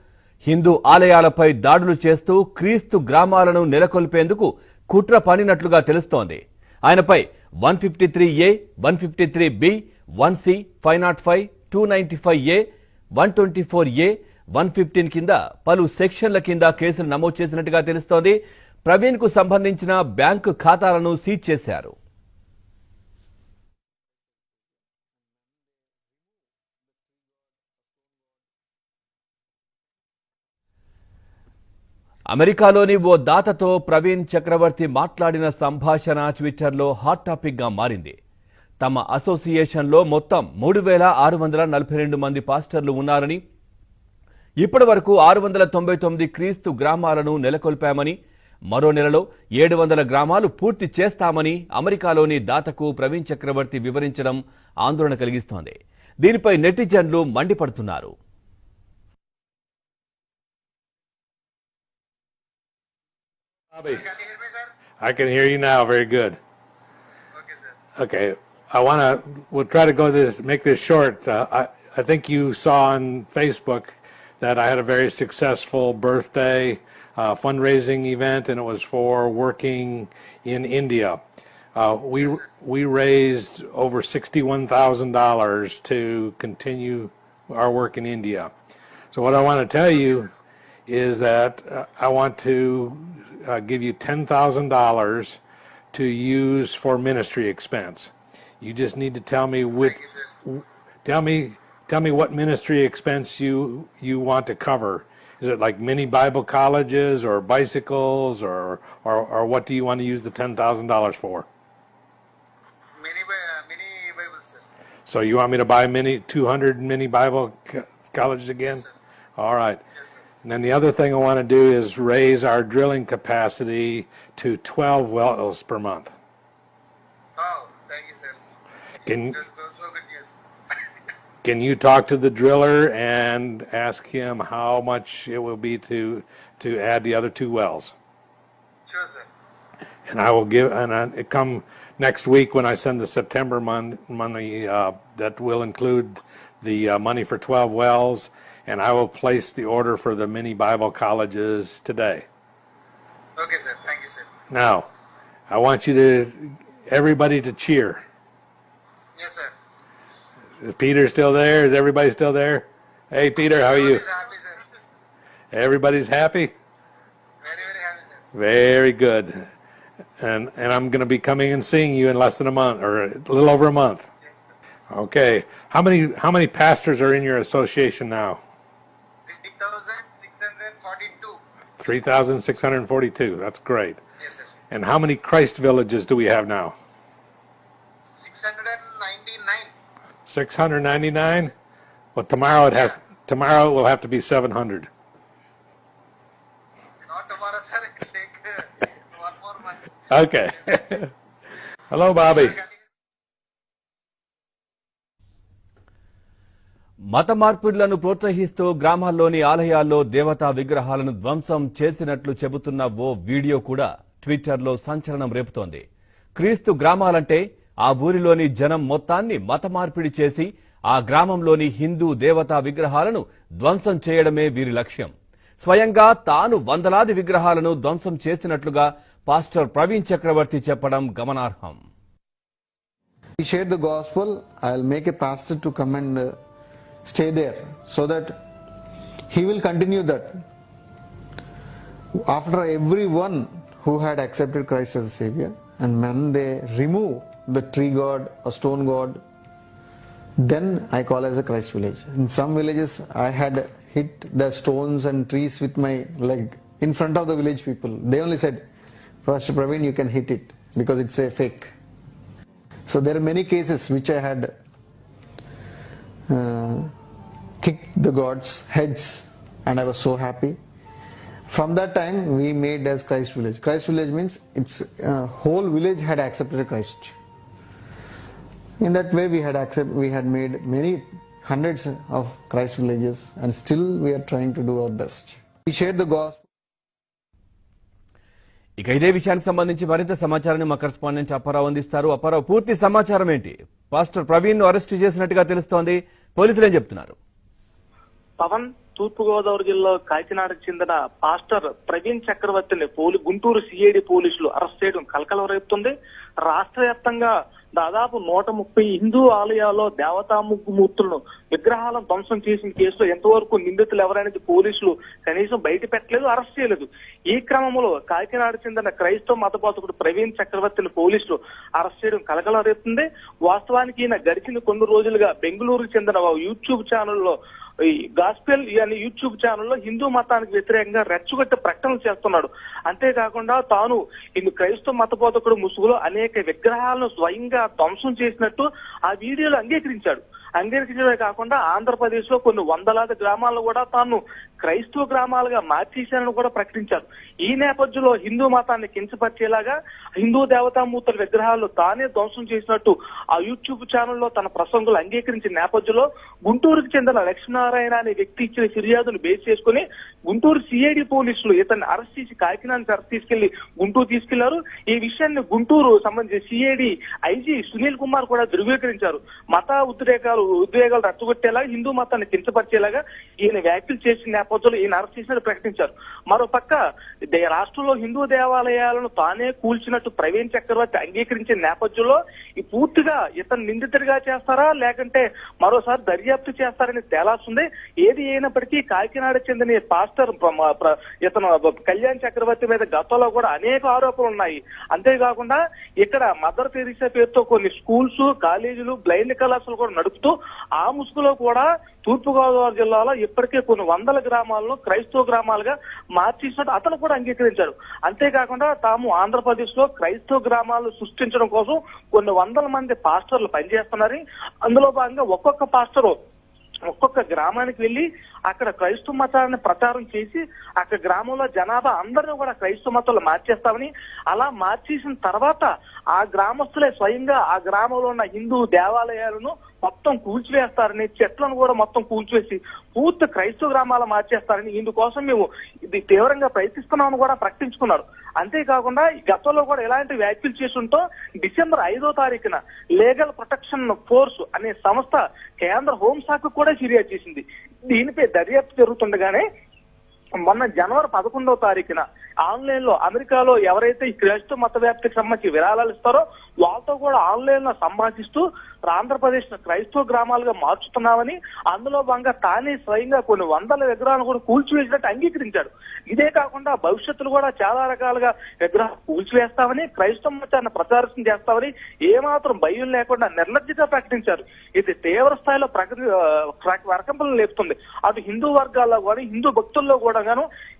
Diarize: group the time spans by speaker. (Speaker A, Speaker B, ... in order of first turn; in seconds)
Speaker A: 0.4-12.6, 13.2-21.9, 32.3-38.1, 38.8-43.4, 44.6-48.1, 48.7-58.1, 207.1-215.8, 216.3-231.8, 288.8-297.1
Speaker B: 63.7-64.1, 65.0-66.4, 68.0-81.2, 81.8-88.5, 89.1-90.3, 90.9-95.4, 95.9-111.5, 115.0-118.8, 119.4-119.8, 120.4-126.1, 129.0-129.4, 131.4-137.9, 140.1-152.2, 154.5-154.9, 155.5-158.0, 160.6-164.0, 165.5-166.5, 168.3-169.5, 170.2-174.1, 174.9-178.4, 181.8-184.0, 184.7-186.7, 190.2-191.5, 192.1-194.9, 200.1-201.1, 201.9-202.6
Speaker C: 64.0-64.7, 67.3-67.7, 100.0-100.3, 113.0-114.6, 127.4-128.4, 129.5-130.3, 138.9-139.2, 153.4-154.3, 159.2-159.5, 163.6-164.5, 167.4-168.1, 179.3-181.4, 188.2-189.7, 197.1-199.8
Speaker D: 233.4-236.3, 237.1-238.3, 239.3-240.4, 242.2-249.2, 250.4-258.6, 259.2-261.7, 262.9-264.5, 266.3-266.9, 267.6-270.6, 271.5-277.1, 278.8-286.4
Speaker E: 298.4-305.9, 306.4-327.3, 328.2-376.8, 377.3-416.1, 416.9-449.4, 450.4-476.1, 476.6-480.4